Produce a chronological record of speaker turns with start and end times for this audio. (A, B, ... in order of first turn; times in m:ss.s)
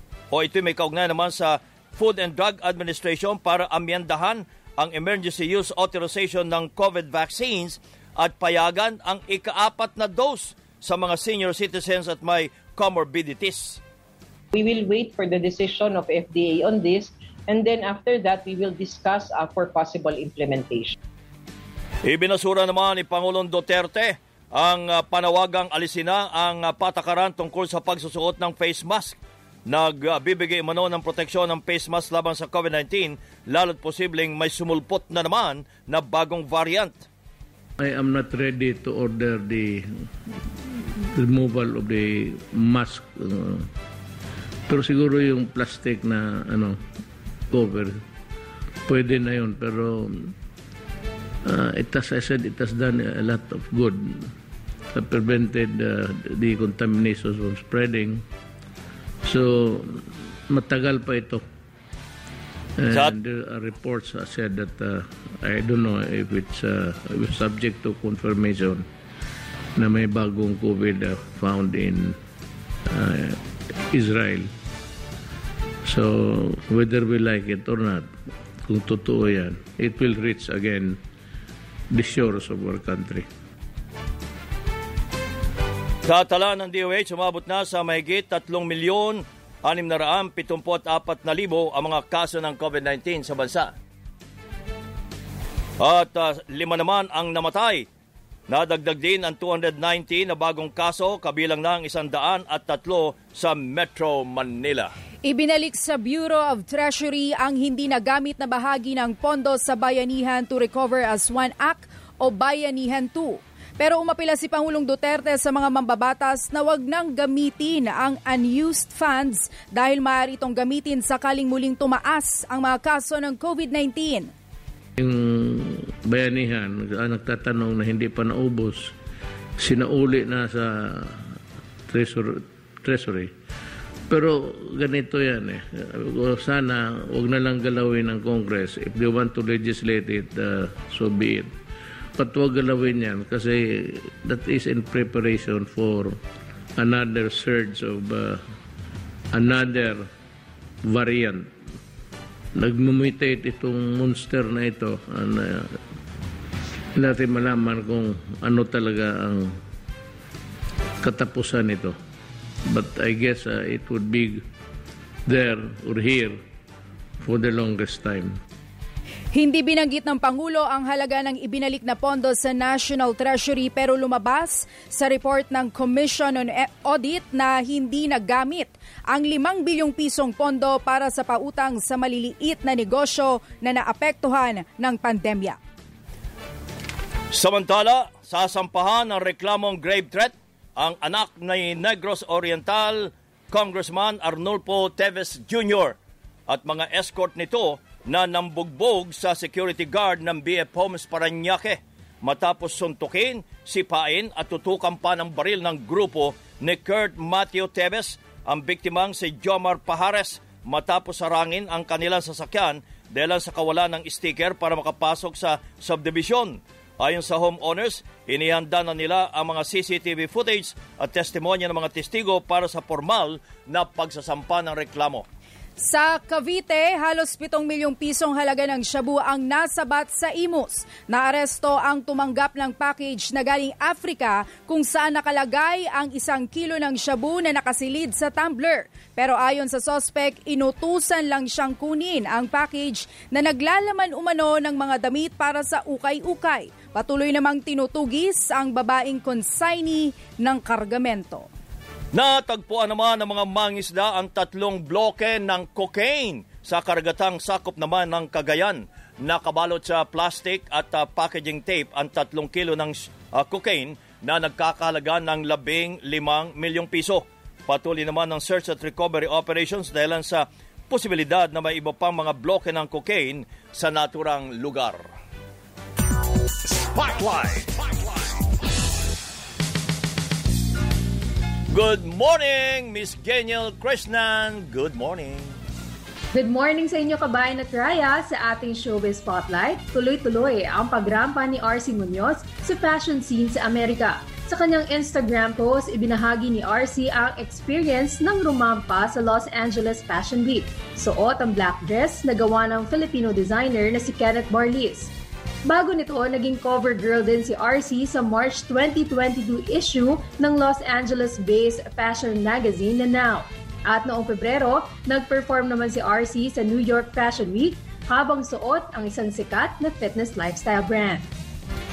0:00.3-0:13.8 A
0:14.5-0:21.0 B
0:22.0-0:29.2 A
0:29.7-0:37.0 A
0:37.8-0:39.9 C
0:40.6-0:43.7 C
0:44.7-0:46.8 C
0:47.5-0:48.0 C
0:48.9-0:50.3 C
0:51.4-0:54.3 C
0:54.9-0:58.2 C
0:59.2-1:01.4 C
1:02.8-1:08.8 C
1:09.8-1:12.2 C
1:12.9-1:14.5 C
1:15.8-1:18.1 C
1:18.6-1:21.0 C
1:21.9-1:23.3 C
1:26.0-1:33.7 A
1:35.8-1:37.9 A
1:38.5-1:44.9 A
1:45.2-2:04.3 D
2:05.0-2:08.9 C
2:09.6-2:11.3 C
2:11.9-2:13.3 C
2:14.1-2:21.5 C
2:22.2-2:26.2 C
2:26.8-2:28.4 C
2:29.3-2:30.1 C
2:30.9-2:31.5 C
2:32.6-2:35.8 C
2:36.9-2:39.6 C
2:41.0-2:41.9 C
2:42.7-2:44.4 C
2:45.2-2:46.4 C
2:47.2-2:48.4 C
2:49.3-3:05.6 D
3:07.3-3:16.0 A
3:16.5-3:45.2 A
3:45.8-4:11.5 D
4:12.1-4:35.1 A
4:36.9-4:37.9 A
4:41.7-4:45.5 A
4:46.3-5:05.1 E
5:05.7-5:21.3 E